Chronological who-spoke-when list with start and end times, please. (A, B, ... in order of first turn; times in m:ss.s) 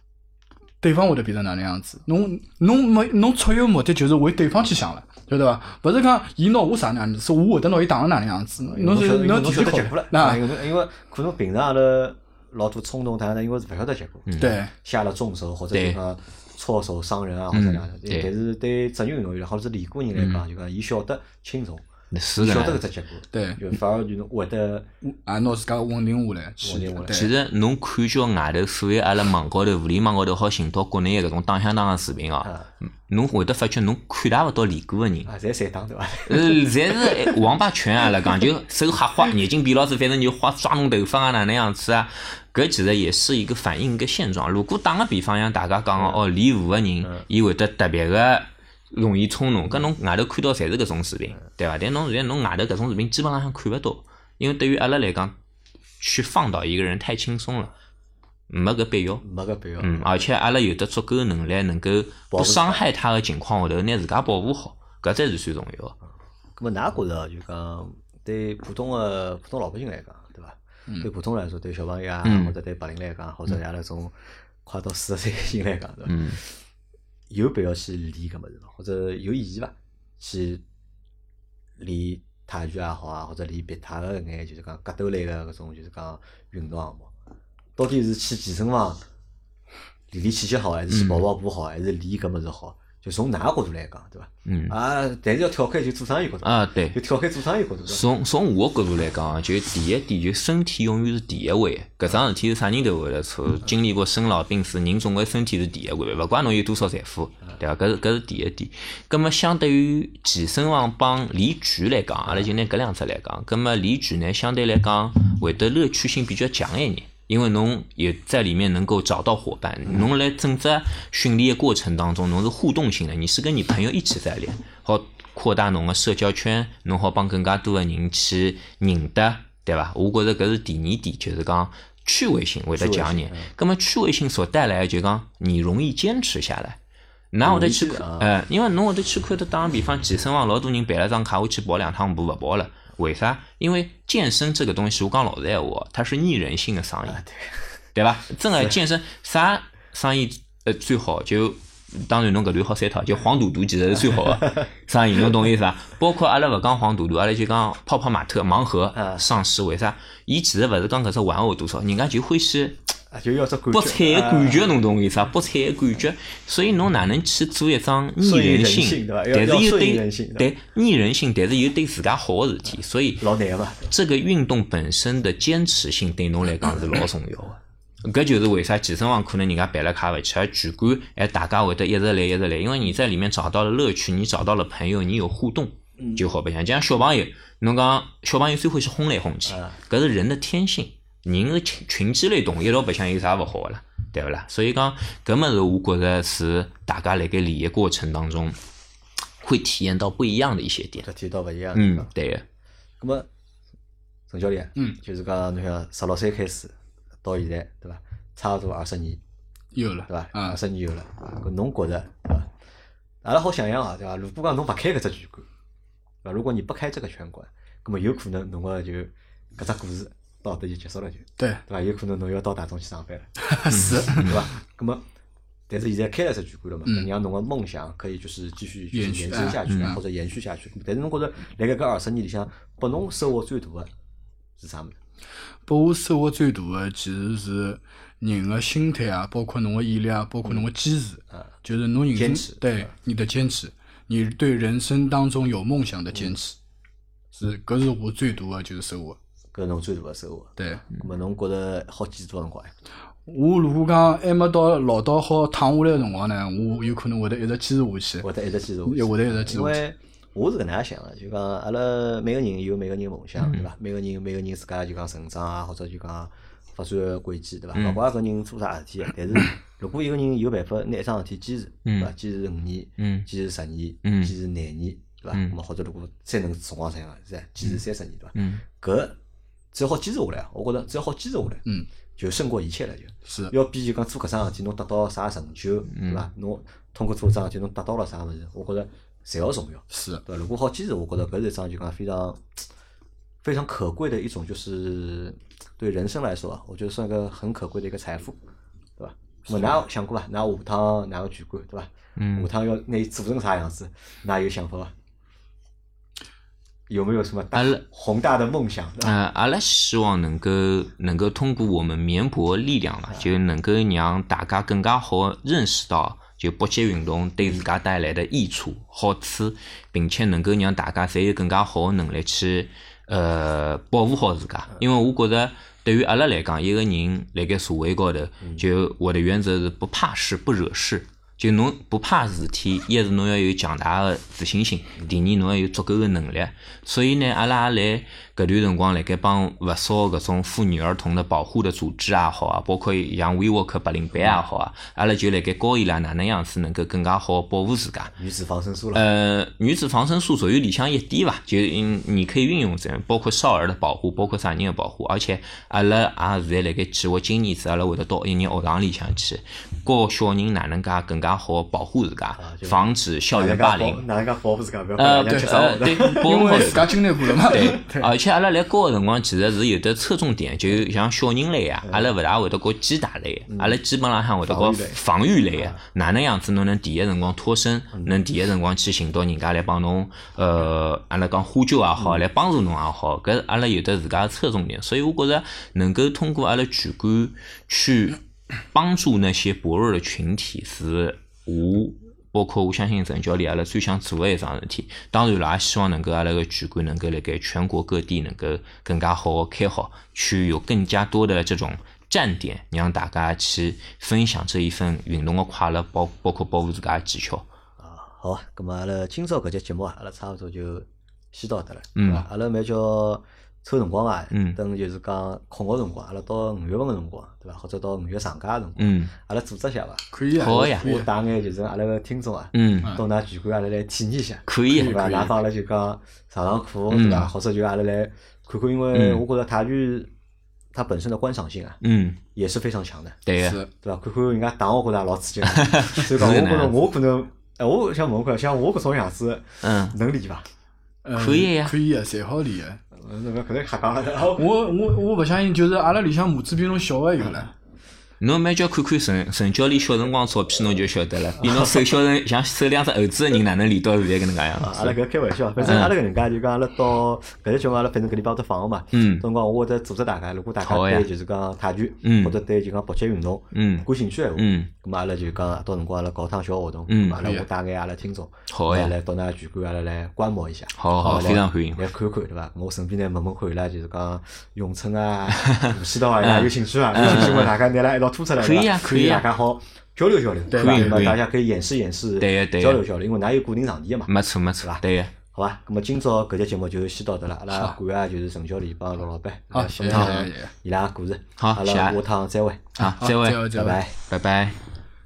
0:00.8-0:10.4 A
0:08.6-0:21.8 B
0:14.3-0:14.6 C
0:14.4-0:14.7 A
0:15.7-0:16.0 C
0:17.5-0:18.3 C
0:20.2-0:20.4 C
0:22.1-0:22.8 C
0:22.4-0:24.9 B
0:23.3-0:23.6 A
0:25.3-0:27.3 A
0:26.6-0:27.3 B
0:27.1-0:32.5 C
0:33.1-0:35.3 C
0:35.3-0:37.4 B
0:36.3-0:55.4 C
0:46.0-0:46.2 B
0:56.0-0:57.7 C
0:58.5-0:59.2 C
0:59.2-1:00.1 B
0:59.8-1:06.0 C
1:02.3-1:02.8 B
1:06.6-1:16.5 B
1:12.2-1:12.6 C
1:16.1-1:16.4 C
1:17.3-1:20.6 B
1:21.8-1:27.1 B
1:27.8-1:29.0 B
1:30.1-1:38.0 B
1:30.9-1:31.3 C
1:34.5-1:34.8 C
1:36.4-1:37.0 C
1:37.9-2:16.8 C
2:12.8-2:13.5 B
2:17.3-2:27.2 C
2:17.4-2:18.3 B
2:27.1-2:27.6 B
2:28.0-2:42.8 C
2:38.9-2:39.2 B
2:43.1-2:44.7 B
2:43.7-2:53.3 C
2:48.2-2:50.5 B
2:53.2-2:53.9 B
2:53.9-3:18.6 C
3:09.5-3:09.8 B
3:19.4-3:21.1 C
3:21.0-3:22.1 B
3:21.8-3:22.4 C
3:23.0-3:23.3 B
3:24.3-3:29.2 B
3:29.7-3:30.6 A
3:30.1-3:32.5 B
3:33.2-3:35.5 B
3:36.2-3:45.0 B
3:41.4-3:41.6 A
3:43.4-3:44.3 A
3:43.7-3:44.3 C
3:45.7-3:53.9 B
3:48.9-3:50.0 A
3:49.7-3:50.0 C
3:54.6-3:55.0 B
3:55.7-4:06.6 A
4:02.1-4:02.9 B
4:07.3-4:09.2 A
4:09.5-4:12.7 B
4:10.6-4:10.8 A
4:13.3-4:18.3 A
4:18.2-4:39.2 B
4:18.9-4:19.8 A
4:23.4-4:23.7 C
4:27.8-4:28.0 C
4:31.8-4:32.1 C
4:33.0-4:33.3 C
4:34.0-4:34.3 C
4:38.4-4:38.6 C
4:39.7-4:41.7 B
4:42.2-4:52.7 B
4:43.3-4:43.5 A
4:45.9-4:46.2 C
4:49.9-4:50.2 A
4:53.4-4:58.4 B
4:59.0-5:04.9 B
5:02.2-5:02.5 C
5:06.9-5:09.2 B
5:07.6-5:07.8 C
5:09.0-5:48.1 C
5:48.2-5:49.1 B
5:48.9-6:04.0 C
6:02.4-6:06.9 B
6:05.0-6:06.9 C
6:06.0-6:08.1 A
6:07.4-6:28.2 C
6:13.5-6:13.8 B
6:14.5-6:15.0 B
6:18.0-6:18.2 B
6:22.0-6:22.2 B
6:28.7-6:47.5 C
6:47.8-7:10.1 B
6:52.0-6:52.2 C
6:54.3-6:54.6 C
6:58.8-6:59.1 C
7:00.1-7:01.1 A
7:00.4-7:00.9 C
7:02.5-7:03.0 C
7:04.5-7:05.3 C
7:04.7-7:05.3 A
7:06.9-7:07.3 C
7:08.9-7:09.2 C
7:10.7-7:11.8 B
7:11.8-7:12.2 C
7:12.3-7:13.2 B
7:13.3-7:13.6 C
7:13.4-7:13.7 A
7:13.8-7:20.5 B
7:15.5-7:16.8 C
7:19.6-7:20.0 C
7:21.0-7:22.8 A
7:21.2-7:21.8 C
7:22.9-7:24.6 B
7:24.4-7:27.5 A
7:28.2-7:35.0 C
7:31.4-7:31.9 B
7:34.6-8:12.8 B
7:35.6-7:35.9 C
7:38.9-7:39.3 C
7:40.6-7:41.1 C
7:42.0-7:42.4 C
7:43.5-7:44.7 C
7:46.9-7:47.3 C
7:48.5-7:48.9 C
7:50.8-7:51.8 C
7:55.3-7:57.6 C
7:58.4-7:59.3 C
8:00.5-8:01.1 A
8:00.5-8:01.2 C
8:02.2-8:02.8 C
8:04.1-8:05.1 C
8:09.5-8:10.5 A
8:11.4-8:12.0 C
8:12.8-8:14.6 C
8:12.8-8:13.8 A
8:13.5-8:14.0 B